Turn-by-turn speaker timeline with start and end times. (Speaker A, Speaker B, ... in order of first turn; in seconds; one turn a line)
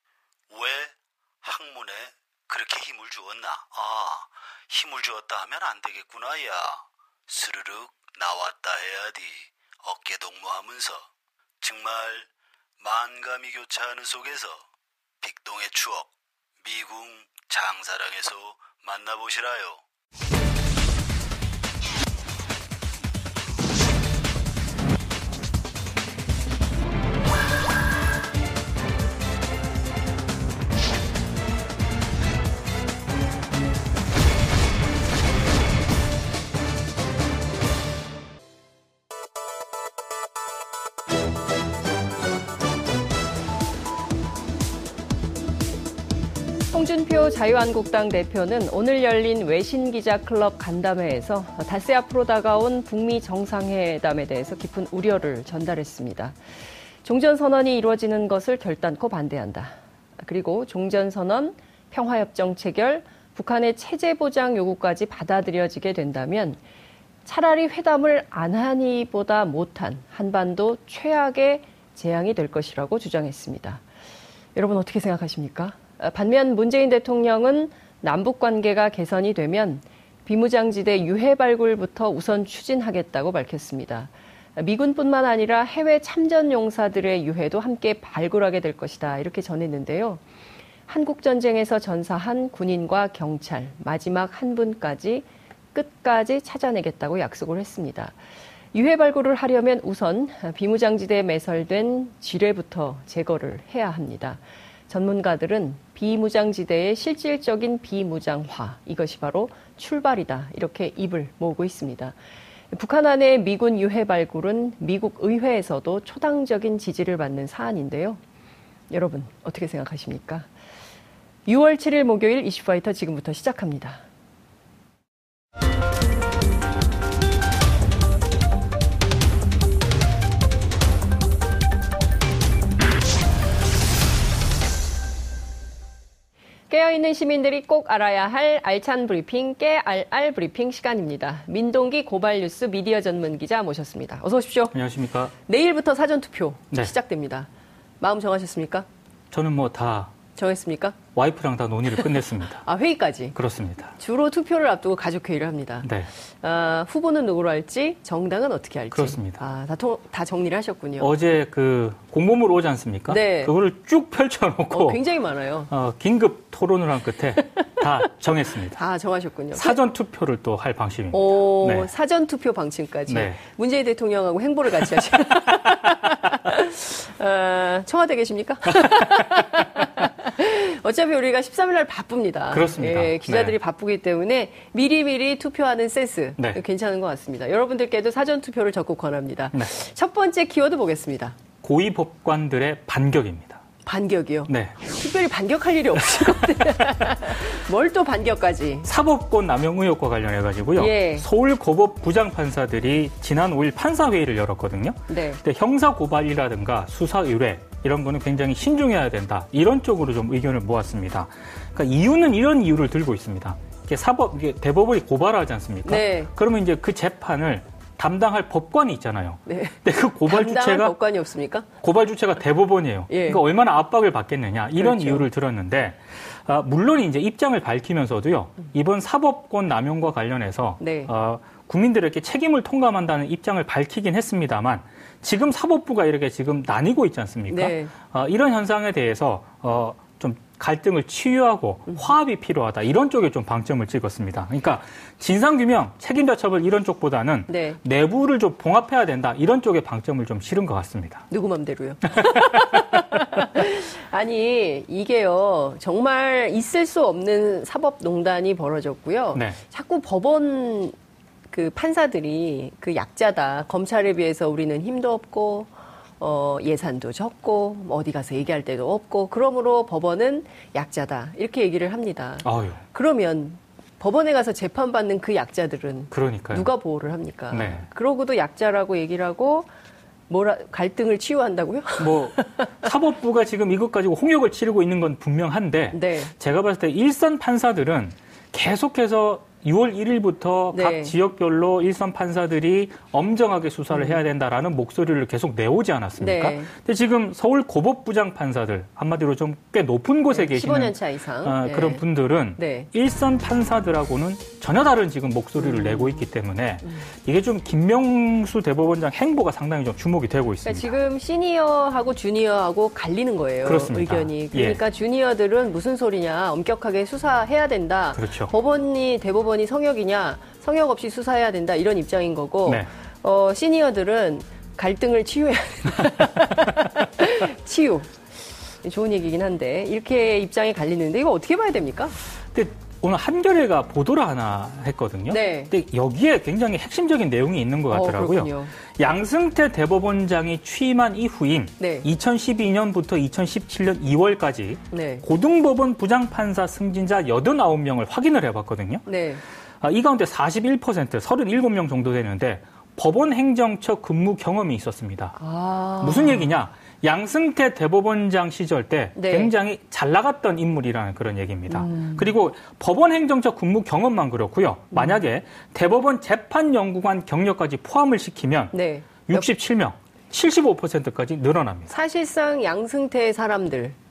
Speaker A: 0.5-11.1
Speaker A: 11.6-12.3
Speaker A: 12.8-14.7
Speaker A: 15.2-16.1
Speaker A: 16.6-19.8
Speaker B: 46.7-56.4
Speaker B: 57.0-66.6
Speaker B: 67.2-73.8
Speaker B: 74.5-90.2
Speaker B: 90.9-98.2
Speaker B: 98.7-112.2
Speaker B: 112.7-118.2
Speaker B: 118.9-120.5
Speaker B: 121.5-124.0
Speaker B: 136.7-144.8
Speaker C: 144.7-145.3
Speaker B: 145.4-147.5
Speaker B: 148.0-148.9
Speaker C: 149.3-150.1
Speaker B: 150.4-151.0
Speaker C: 151.2-152.6
Speaker B: 152.6-153.4
Speaker C: 153.3-153.9
Speaker B: 154.0-161.2
Speaker C: 155.8-156.1
Speaker C: 158.9-159.4
Speaker C: 161.0-165.0
Speaker B: 163.1-163.5
Speaker B: 164.7-165.7
Speaker C: 165.7-168.8
Speaker B: 167.5-167.8
Speaker B: 168.8-169.8
Speaker C: 169.5-171.9
Speaker B: 171.1-191.4
Speaker C: 173.1-173.4
Speaker C: 174.9-175.7
Speaker C: 178.8-179.4
Speaker C: 182.5-183.6
Speaker C: 191.6-193.6
Speaker B: 193.8-198.9
Speaker C: 194.5-194.8
Speaker C: 198.8-220.9
Speaker B: 200.8-201.3
Speaker B: 205.1-205.4
Speaker B: 215.8-216.3
Speaker B: 219.5-221.7
Speaker C: 221.8-251.3
Speaker B: 223.1-223.4
Speaker B: 224.8-225.3
Speaker B: 230.8-231.1
Speaker B: 237.5-237.9
Speaker B: 247.5-247.8
Speaker B: 251.3-260.9
Speaker C: 252.2-252.8
Speaker B: 261.5-279.7
Speaker C: 272.4-272.8
Speaker C: 276.1-276.7
Speaker C: 277.5-277.9
Speaker B: 280.3-282.8
Speaker C: 282.0-310.9
Speaker B: 285.9-286.3
Speaker B: 290.7-291.1
Speaker B: 293.9-294.2
Speaker B: 296.2-296.7
Speaker B: 300.3-302.0
Speaker B: 302.6-302.9
Speaker B: 305.6-306.2
Speaker B: 310.6-328.1
Speaker C: 313.6-314.8
Speaker C: 318.2-318.5
Speaker B: 328.8-332.2
Speaker C: 332.5-349.1
Speaker B: 335.3-335.7
Speaker B: 337.9-338.7
Speaker B: 341.8-342.1
Speaker B: 344.9-345.3
Speaker B: 349.1-349.4
Speaker C: 349.8-355.4
Speaker B: 355.4-356.5
Speaker C: 356.0-368.7
Speaker B: 359.2-359.5
Speaker B: 361.7-362.3
Speaker B: 364.9-365.2
Speaker B: 368.7-369.5
Speaker C: 369.3-371.9
Speaker B: 371.9-374.0